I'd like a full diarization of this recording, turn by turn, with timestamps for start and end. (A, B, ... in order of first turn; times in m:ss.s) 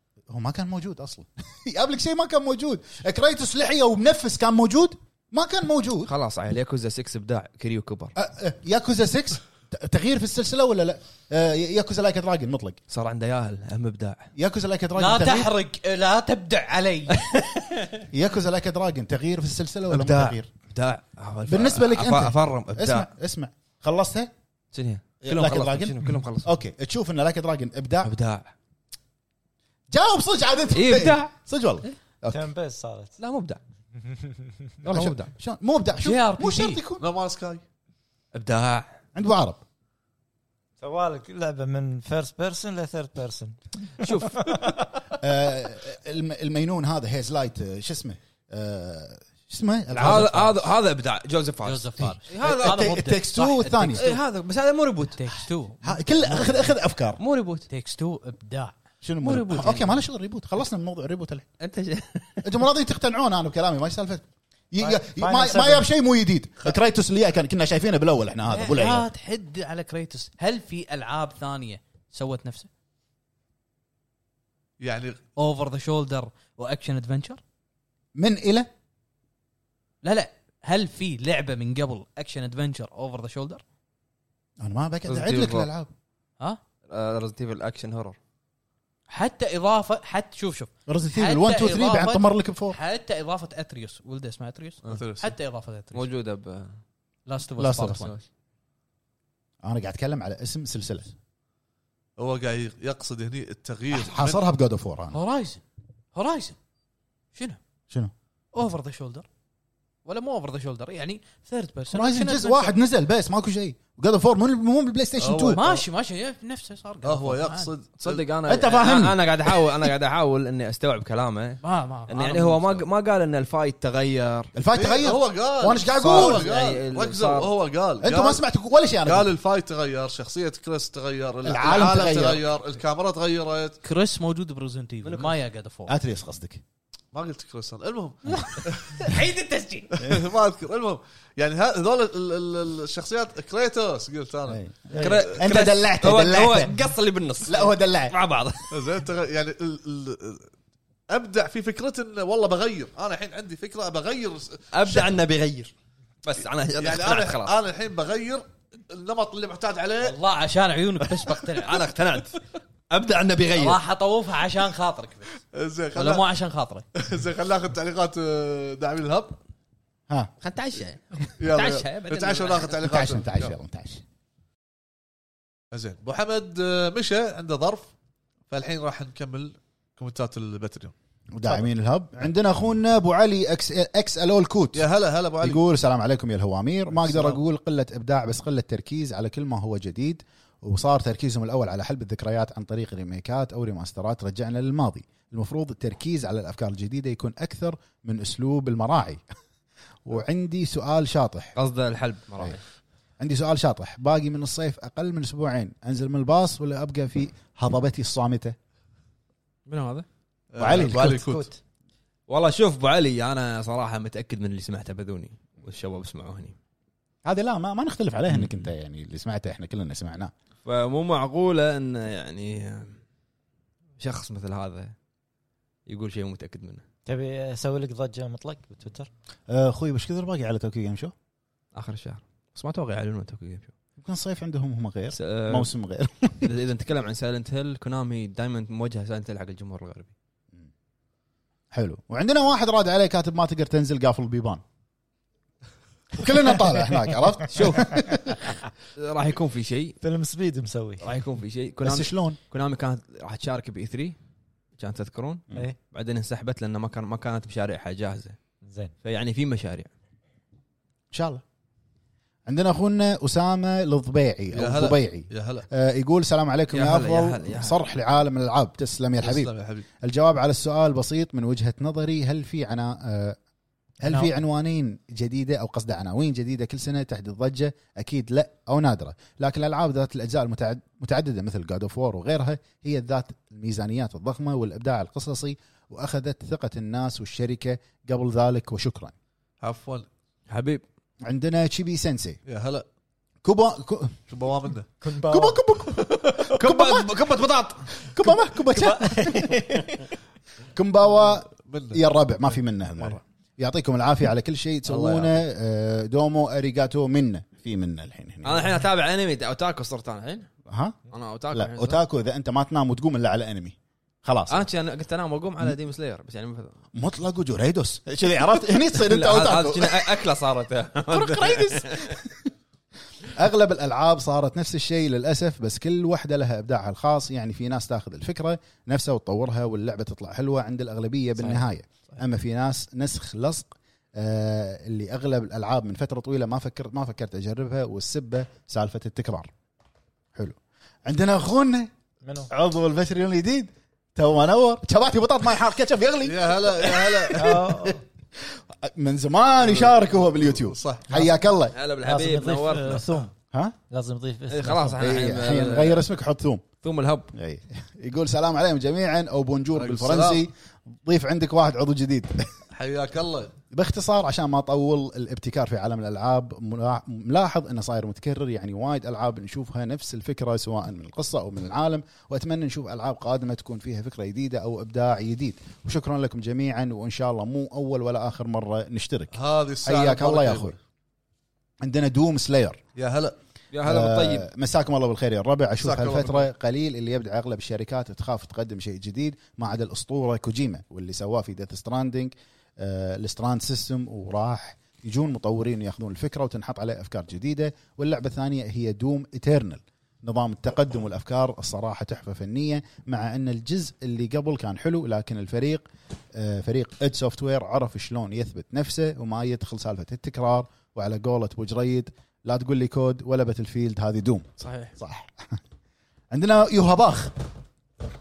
0:00.3-0:06.1 A
0:06.1-0:08.1 B
0:08.2-0:12.8 A
0:12.9-0:14.3 B
0:14.4-0:15.5 A
0:15.0-0:17.5 C
0:18.1-0:20.5 A
0:19.9-0:23.1 B
0:21.5-0:24.3 A
0:24.7-0:26.5 B
0:25.2-0:28.1 A
0:28.0-0:28.5 B
0:29.9-0:32.4 A
0:30.7-0:31.3 B
0:32.3-0:33.1 D
0:33.2-0:33.6 B
0:34.1-0:34.5 D
0:34.8-0:35.3 B
0:34.9-0:37.1 A
0:36.0-0:36.8 C
0:37.0-0:37.6 E
0:38.3-0:39.0 B
0:39.2-0:39.6 A
0:40.8-0:44.8 D
0:44.0-0:44.8 B
0:45.2-0:50.5 A
0:49.9-0:53.1 B
0:50.0-0:50.5 C
0:51.6-0:54.2 C
0:52.0-0:54.1 A
0:53.9-0:55.4 B
0:55.2-0:56.6 C
0:55.8-0:57.2 A
0:57.2-0:57.7 B
0:57.7-0:58.7 C
0:59.0-1:01.5 A
0:59.2-0:59.9 B
1:01.6-1:02.5 B
1:02.4-1:09.1 A
1:04.8-1:05.9 D
1:08.5-1:12.7 C
1:14.8-1:15.2 E
1:15.4-1:17.4 C
1:18.2-1:18.7 A
1:20.0-1:23.6 C
1:24.6-1:25.9 A
1:25.1-1:25.7 B
1:26.9-1:28.2 B
1:29.1-1:36.1 C
1:30.9-1:32.8 A
1:34.8-1:35.3 E
1:35.9-1:36.8 B
1:37.3-1:38.1 C
1:37.6-1:38.1 A
1:39.6-1:41.1 A
1:42.2-1:44.4 E
1:43.9-1:45.2 A
1:45.1-1:45.6 C
1:46.2-1:46.6 C
1:47.3-1:47.6 C
1:48.5-1:49.3 C
1:50.1-1:52.8 C
1:51.9-1:55.7 A
1:55.2-1:55.8 E
1:55.5-1:57.7 C
1:57.0-1:58.2 E
1:58.0-2:04.5 B
1:58.5-1:59.6 A
2:01.6-2:02.8 C
2:04.5-2:06.5 A
2:04.7-2:08.4 E
2:06.0-2:07.5 B
2:08.0-2:09.3 A
2:09.0-2:13.8 E
2:11.4-2:12.4 A
2:13.8-2:16.0 C
2:15.0-2:15.4 B
2:15.9-2:16.6 A
2:17.1-2:19.0 E
2:18.3-2:20.0 C
2:19.9-2:25.4 E
2:24.5-2:26.7 A
2:24.9-2:28.9 B
2:27.4-2:28.2 A
2:28.7-2:30.5 E
2:31.1-2:35.2 E
2:34.7-2:35.7 B
2:36.2-2:37.6 B
2:36.8-2:40.2 E
2:40.0-2:41.8 C
2:41.4-2:43.8 B
2:43.5-2:45.4 C
2:45.5-2:46.3 E
2:45.9-2:46.8 C
2:47.0-2:49.4 E
2:50.4-2:52.7 B
2:51.4-2:53.5 E
2:52.3-2:52.6 C
2:52.8-2:54.0 A
2:55.7-2:57.9 E
2:58.5-3:00.9 E
3:01.3-3:04.9 A
3:04.8-3:05.6 E
3:05.4-3:19.2 A
3:06.9-3:07.4 E
3:20.0-3:21.6 A
3:21.6-3:22.6 B
3:23.2-3:28.6 A
3:29.7-3:30.1 B
3:30.5-3:31.5 E
3:30.6-3:31.5 A
3:32.3-3:36.6 B
3:37.2-3:40.3 A
3:38.3-3:38.6 B
3:40.6-3:43.0 B
3:44.0-3:44.9 B
3:45.9-3:46.8 B
3:47.1-3:49.1 D
3:49.5-3:51.1 A
3:51.8-3:53.7 B
3:54.0-3:56.5 A
3:55.1-3:55.7 B
3:56.4-4:00.1 B
4:01.7-4:04.6 A
4:06.1-4:08.3 A
4:07.5-4:10.0 B
4:10.0-4:11.1 D
4:11.0-4:14.2 B
4:11.8-4:12.4 A
4:14.8-4:18.4 B
4:19.0-4:19.9 B
4:21.1-4:21.4 A
4:22.5-4:29.5 A
4:24.5-4:25.7 E
4:26.7-4:27.8 B
4:29.2-4:29.9 E
4:30.0-4:33.4 A
4:34.0-4:49.1 A
4:34.0-4:34.3 D
4:49.6-4:50.1 E
4:50.5-4:50.8 B
4:51.2-4:52.4 A
4:52.5-4:52.8 E
4:53.4-4:54.2 A
4:54.3-4:54.9 E
4:55.0-4:55.7 D
4:55.3-4:57.1 A
4:56.1-4:57.9 B
4:58.0-4:59.7 A
4:58.7-5:00.1 D
5:00.7-5:08.8 A
5:01.7-5:02.0 E
5:04.9-5:05.4 E
5:08.4-5:10.5 B
5:10.7-5:11.0 A
5:11.1-5:12.0 B
5:11.5-5:14.6 A
5:14.5-5:16.8 B
5:17.0-5:20.2 A
5:18.9-5:22.2 B
5:21.1-5:22.5 A
5:23.2-5:39.5 A
5:40.4-5:41.9 A
5:42.2-5:42.5 D
5:42.5-5:51.8 A
5:46.2-5:47.7 E
5:47.4-5:48.0 D
5:49.6-5:51.1 E
5:51.7-5:53.0 B
5:52.0-5:53.3 D
5:53.9-5:55.0 D
5:54.5-5:56.0 B
5:55.0-5:56.6 A
5:56.8-5:57.3 B
5:57.3-6:02.6 A
5:59.8-6:00.4 E
6:02.7-6:03.6 E
6:03.7-6:20.8 A
6:19.3-6:20.8 E
6:21.8-6:22.8 A
6:23.0-6:23.4 E
6:23.7-6:24.5 B
6:23.8-6:55.6 A
6:25.8-6:26.5 E
6:54.6-6:54.9 B
6:56.3-6:57.4 A